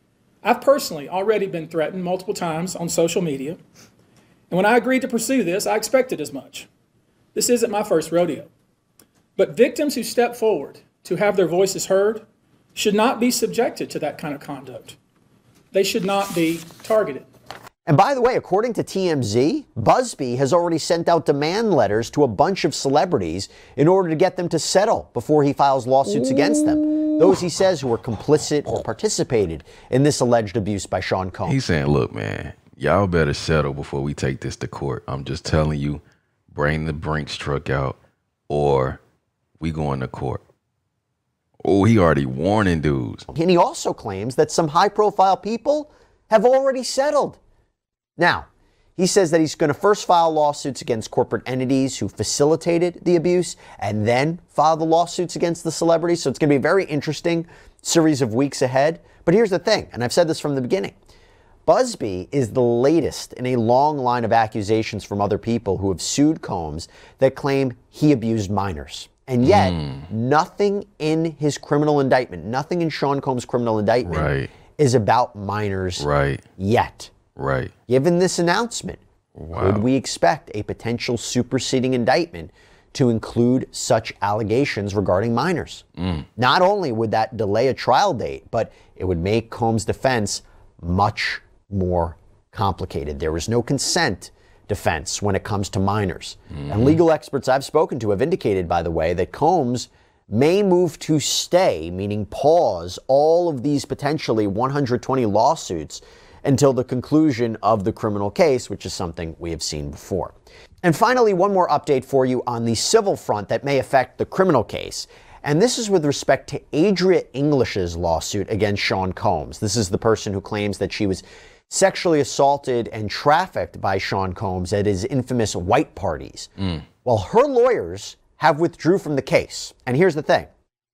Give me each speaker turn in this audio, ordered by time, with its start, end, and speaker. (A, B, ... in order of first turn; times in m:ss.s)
0:00.4-0:03.6 A
0:04.5-0:06.7 A
0:07.3-0:08.5 A
0:09.4-0:15.0 A
0:15.7-0:17.3 A
0:17.9-0:31.6 B
0:26.2-0:27.1 C
0:31.4-0:38.0 C
0:38.5-0:39.0 C
0:39.6-0:40.4 C
0:41.6-0:43.3 C
0:43.3-0:47.4 B
0:48.2-1:00.9 B
1:01.6-1:16.0 B
1:09.4-1:10.1 C
1:14.0-1:14.5 C
1:16.0-1:16.4 C
1:16.6-1:17.1 B
1:17.4-1:17.7 C
1:17.9-1:19.0 B
1:19.4-1:19.8 C
1:19.5-1:25.8 B
1:26.0-1:26.2 C
1:26.4-2:06.5 B
1:36.6-1:37.0 C
2:07.0-2:10.5 B